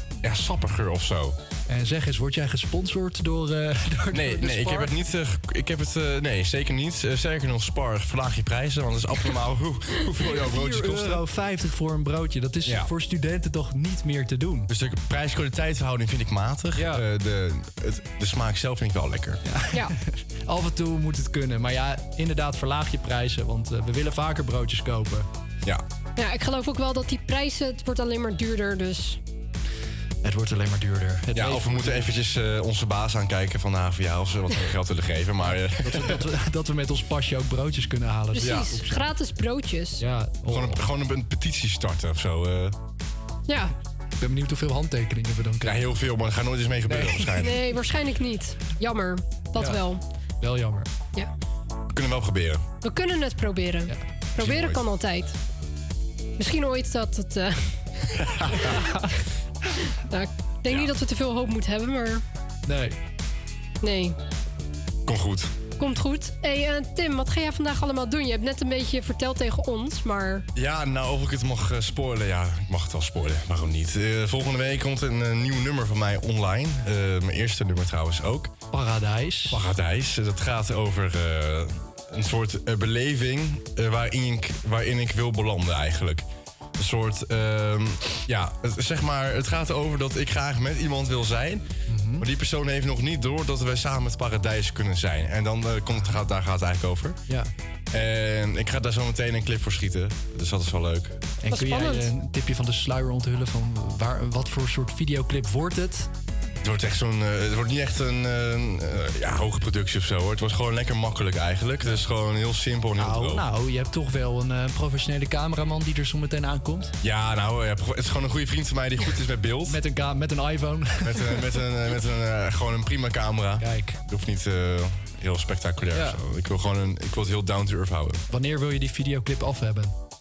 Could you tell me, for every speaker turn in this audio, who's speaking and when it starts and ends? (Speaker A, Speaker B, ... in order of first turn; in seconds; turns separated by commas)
Speaker A: 0.2-1.4, Speaker B: 1.7-4.9, Speaker A: 4.1-11.2, Speaker B: 10.1-14.7, Speaker A: 12.6-12.9, Speaker A: 14.7-19.4, Speaker B: 16.7-17.0, Speaker B: 19.4-25.3, Speaker C: 26.2-29.2, Speaker B: 30.2-32.1, Speaker A: 31.3-36.2, Speaker B: 35.4-39.0, Speaker C: 38.3-40.0, Speaker A: 38.4-38.8, Speaker B: 40.0-40.9, Speaker A: 40.5-42.8, Speaker C: 43.5-43.7, Speaker B: 44.2-46.0, Speaker A: 45.6-47.6, Speaker B: 46.9-47.5, Speaker C: 47.3-50.0, Speaker B: 49.5-49.8, Speaker B: 50.4-50.9, Speaker A: 51.9-52.6, Speaker C: 52.8-55.4, Speaker A: 54.4-54.8, Speaker C: 56.4-57.8, Speaker A: 58.2-58.8, Speaker C: 59.9-62.2, Speaker B: 62.6-63.0, Speaker C: 63.8-64.2, Speaker A: 65.0-65.5, Speaker C: 65.8-70.5, Speaker A: 70.5-78.5, Speaker B: 78.7-79.6, Speaker A: 79.5-86.3, Speaker A: 86.8-97.2, Speaker B: 91.9-92.2, Speaker A: 97.9-101.2, Speaker B: 101.4-106.1, Speaker C: 101.5-102.1, Speaker A: 106.6-113.5, Speaker B: 113.0-116.9, Speaker A: 117.0-119.8, Speaker B: 119.7-121.4, Speaker A: 121.0-128.2, Speaker B: 123.6-124.0, Speaker B: 125.9-126.2, Speaker B: 128.3-129.9